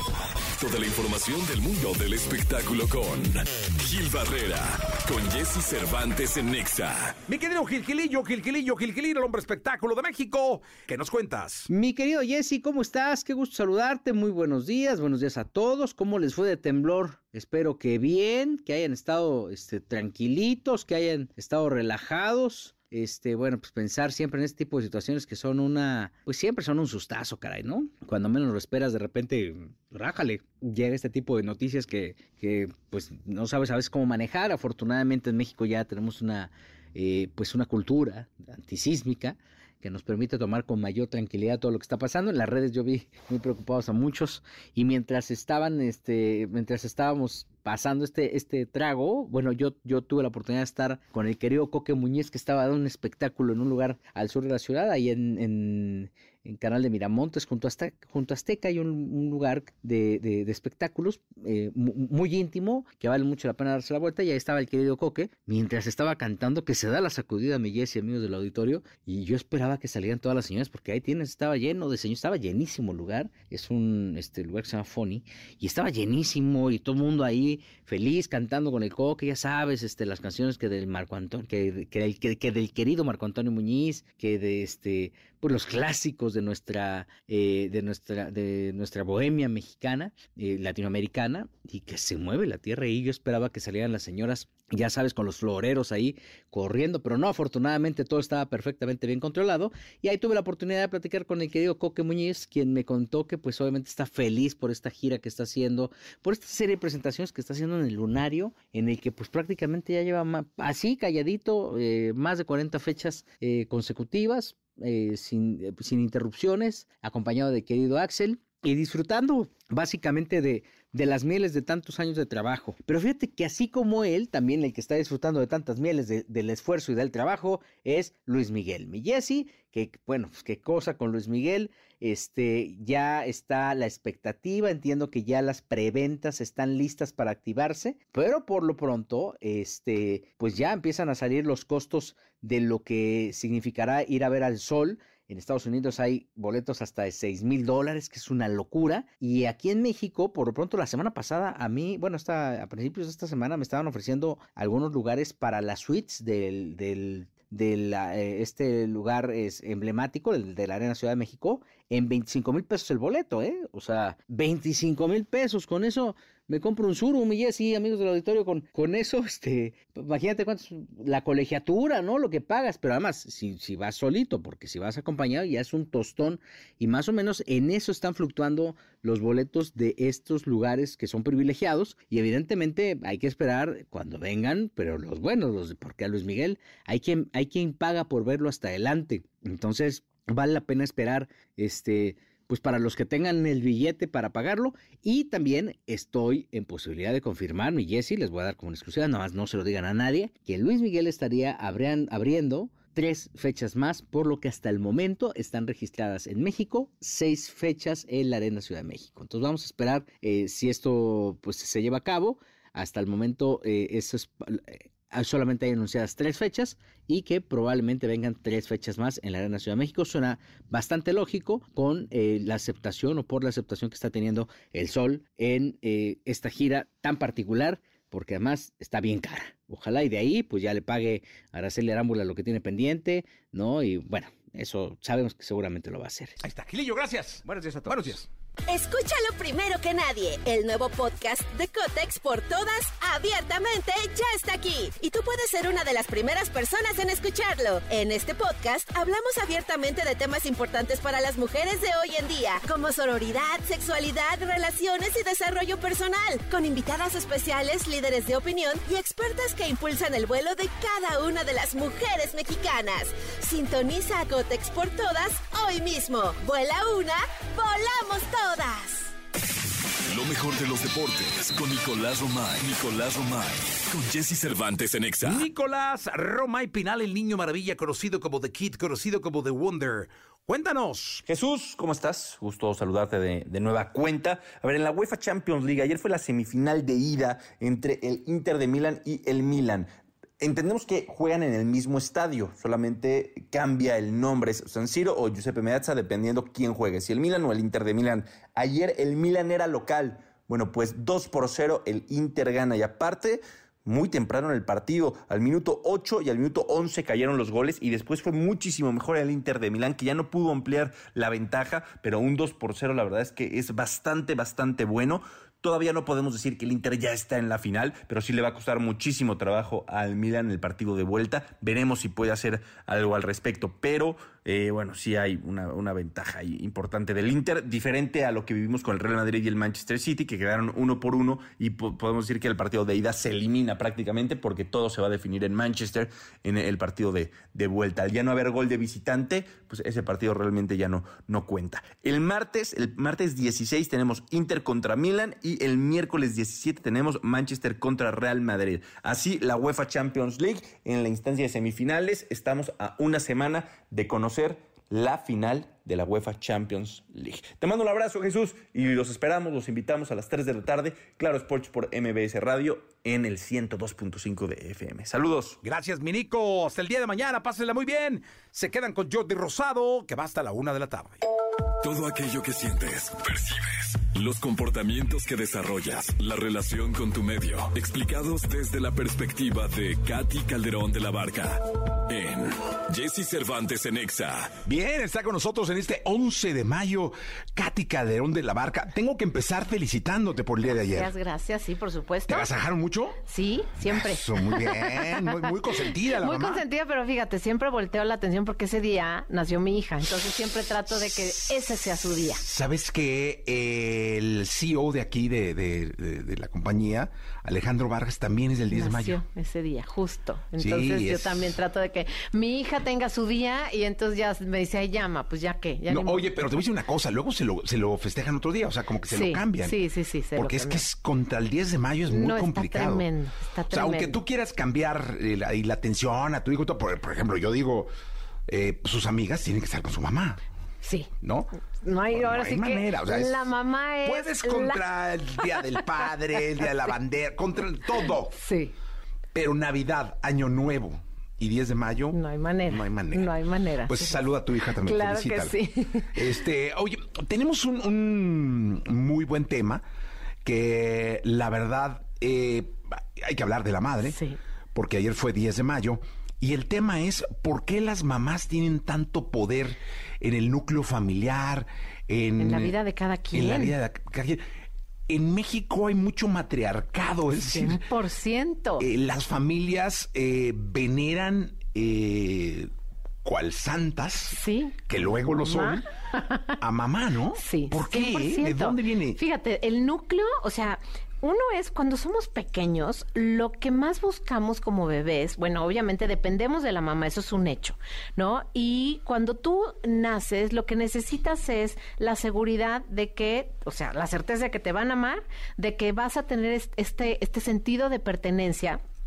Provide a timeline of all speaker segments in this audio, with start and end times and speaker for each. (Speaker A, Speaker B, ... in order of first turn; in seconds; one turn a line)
Speaker A: 0.6-7.2
Speaker B: 7.3-11.7
Speaker C: 11.7-236.4
Speaker B: 236.4-238.3
Speaker D: 238.7-269.1
Speaker A: 270.1-275.4
Speaker B: 275.2-281.2
Speaker E: 281.2-289.9
Speaker E: 290.4-365.6
Speaker B: 365.6-371.2
Speaker A: 371.8-384.6
Speaker B: 384.6-391.1
Speaker F: 390.9-392.5
Speaker B: 392.3-393.2
Speaker F: 393.3-395.1
Speaker B: 393.9-396.6
Speaker F: 396.2-402.4
Speaker B: 402.4-409.2
Speaker F: 408.7-416.4
Speaker B: 410.6-411.3
Speaker B: 415.9-419.8
Speaker F: 419.1-420.8
Speaker B: 420.4-423.1
Speaker F: 422.1-424.2
Speaker B: 423.7-427.9
Speaker B: 428.5-430.4
Speaker F: 430.8-431.1
Speaker B: 431.2-431.5
Speaker F: 431.8-434.8
Speaker B: 432.1-433.5
Speaker B: 434.0-438.3
Speaker F: 435.4-435.9
Speaker F: 438.3-438.7
Speaker B: 439.3-442.2
Speaker F: 442.1-444.2
Speaker B: 442.7-443.3
Speaker B: 443.9-445.6
Speaker F: 444.8-446.2
Speaker B: 446.1-449.8
Speaker B: 450.4-454.1
Speaker F: 454.0-454.4
Speaker B: 454.7-462.7
Speaker F: 462.4-463.7
Speaker B: 463.3-464.4
Speaker B: 465.1-467.8
Speaker F: 467.5-468.9
Speaker B: 468.8-472.7
Speaker B: 473.2-475.9
Speaker F: 474.3-474.8
Speaker F: 475.4-476.6
Speaker B: 476.6-479.2
Speaker F: 477.4-498.8